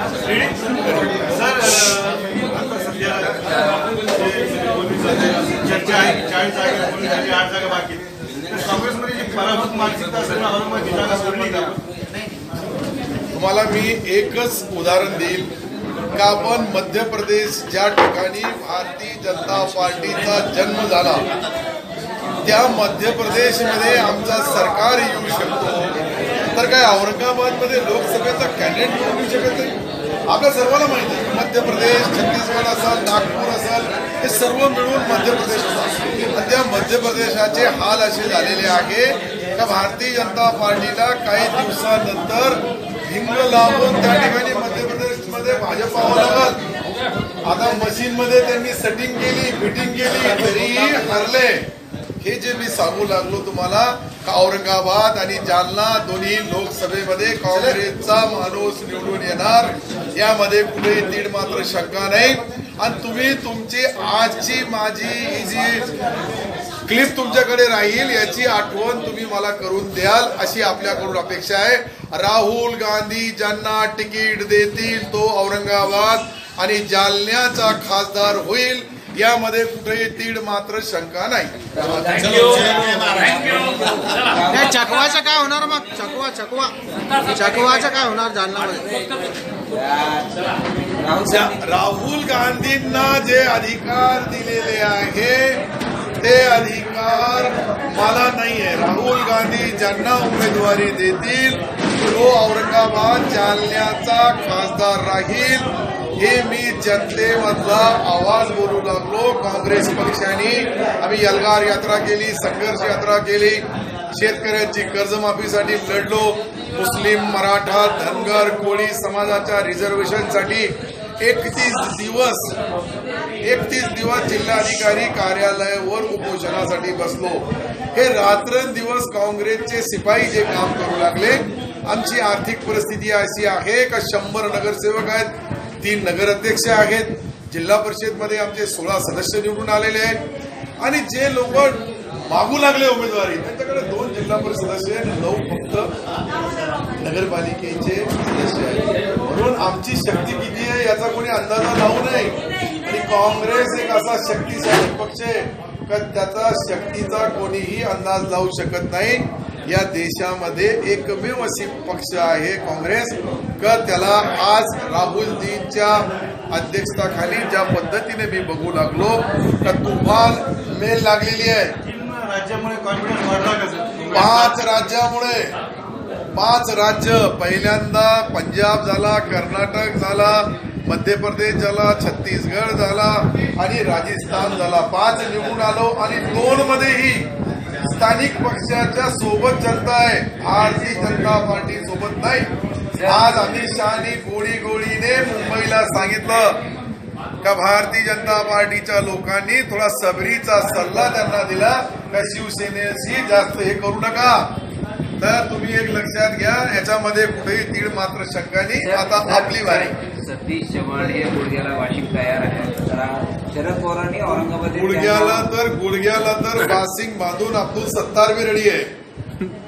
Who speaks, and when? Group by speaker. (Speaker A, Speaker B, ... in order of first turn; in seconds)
Speaker A: 0.2-12.0, 171.8-174.6
Speaker B: 13.3-15.5, 16.1-21.3, 22.4-25.9, 26.5-29.7, 30.3-46.6, 47.5-51.7, 52.2-65.8, 66.8-83.0, 91.2-95.6, 96.2-105.7, 106.2-122.6, 123.4-140.2, 140.8-141.8, 142.3-145.9, 147.0-152.3, 152.8-171.7, 174.1-175.5, 176.3-187.3, 187.8-192.5, 193.0-196.6, 197.4-204.5, 205.2-209.9, 214.7-218.9
Speaker C: 81.8-84.7, 89.7-91.7, 208.8-215.5
Speaker D: 84.5-88.9